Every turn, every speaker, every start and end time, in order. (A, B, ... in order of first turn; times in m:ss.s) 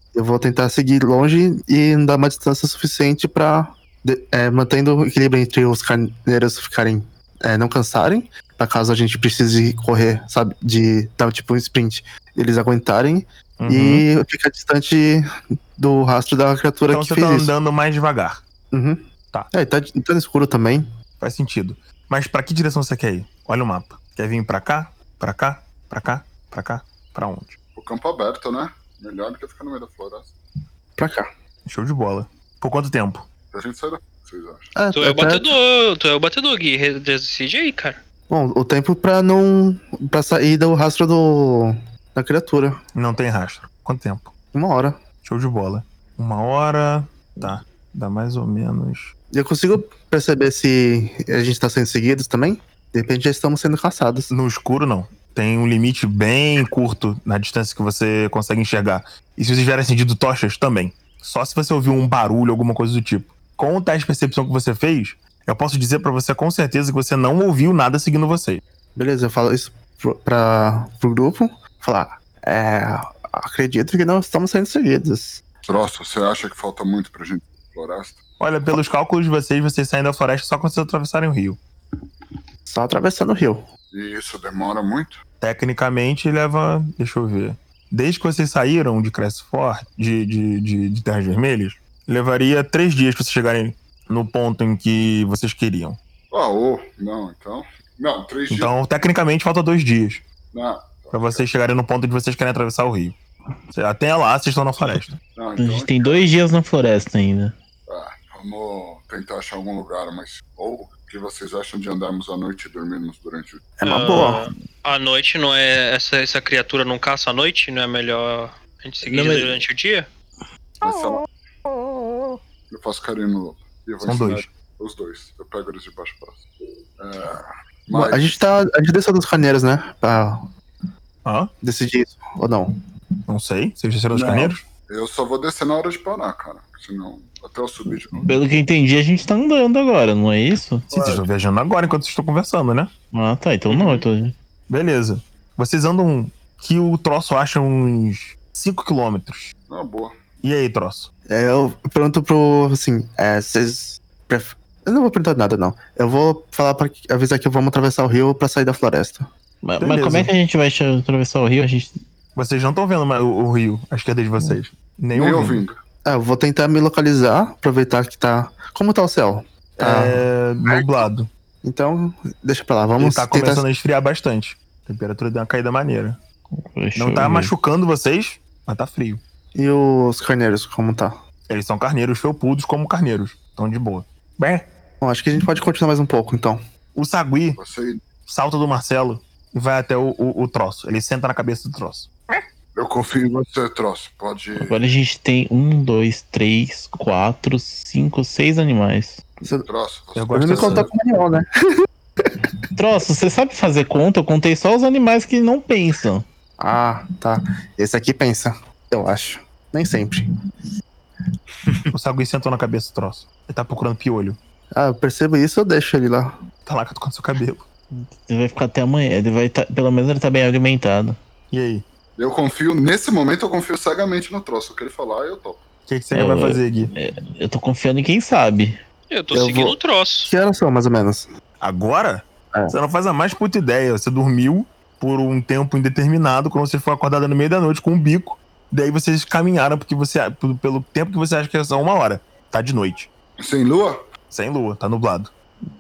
0:00.1-0:17.5 A
0:13.6-0:14.0 B
0:16.9-0:18.4 B
0:18.7-0:20.9 A
0:21.2-0:27.6 B
0:27.8-0:30.3 C
0:31.0-0:31.3 A
0:31.7-0:33.3 B
0:33.5-0:34.7 C
0:34.8-0:35.5 A
0:34.9-0:38.0 D
0:38.3-0:42.8 A
0:43.0-0:44.3 B
0:44.5-0:45.0 A
0:45.2-0:49.1 B
0:49.3-0:54.3 A
0:54.3-1:08.6 B
1:09.0-1:15.4 A
1:15.6-1:18.2 C
1:18.4-1:21.6 B
1:22.7-1:23.7 A
1:23.9-1:25.2 C
1:25.4-1:36.0 B
1:36.3-1:38.7 C
1:38.5-1:40.2 B
1:40.5-1:41.4 C
1:41.1-1:43.2 B
1:43.7-1:45.2 B
1:45.4-1:46.2 C
1:45.6-1:47.6 E
1:47.9-1:53.7 C
1:53.8-1:54.5 A
1:53.8-2:00.1 D
1:59.0-1:59.6 E
2:00.8-2:01.3 C
2:02.7-2:06.4 C
2:04.0-2:04.5 B
2:07.0-2:08.4 C
2:07.9-2:10.4 A
2:11.2-2:11.5 B
2:11.6-2:12.7 A
2:13.3-2:14.6 B
2:14.1-2:18.3 C
2:18.2-2:20.9 E
2:20.9-2:21.2 C
2:20.9-2:22.9 B
2:23.1-2:24.4 E
2:23.7-2:24.0 D
2:24.7-2:29.5 B
2:29.7-2:30.1 C
2:30.4-2:31.1 B
2:31.3-2:39.3 A
2:39.6-2:42.0 E
2:39.8-2:40.3 B
2:42.4-2:45.6 B
2:45.1-2:45.8 C
2:46.0-2:51.0 A
2:49.8-2:51.3 B
2:51.6-2:53.7 A
2:53.0-2:56.2 B
2:56.5-2:57.5 E
2:57.0-2:59.2 B
2:59.6-3:01.2 A
3:01.5-3:04.7 B
3:05.0-3:06.6 A
3:07.0-3:07.6 B
3:07.6-3:08.0 C
3:08.3-3:12.4 B
3:12.8-3:14.8 C
3:14.6-3:19.2 E
3:19.4-3:19.7 A
3:19.7-3:20.9 C
3:20.2-3:20.9 B
3:20.3-3:21.5 A
3:22.8-3:26.2 E
3:26.6-3:30.3 A
3:31.9-3:34.4 B
3:34.7-3:36.4 A
3:36.6-3:37.6 B
3:37.9-3:41.2 E
3:41.5-3:41.8 B
3:42.2-3:45.6 C
3:45.9-3:46.9 B
3:46.1-3:48.8 E
3:49.1-3:50.3 D
3:49.3-3:51.3 A
3:51.6-4:03.1 B
4:03.4-4:04.0 C
4:04.3-4:05.3 B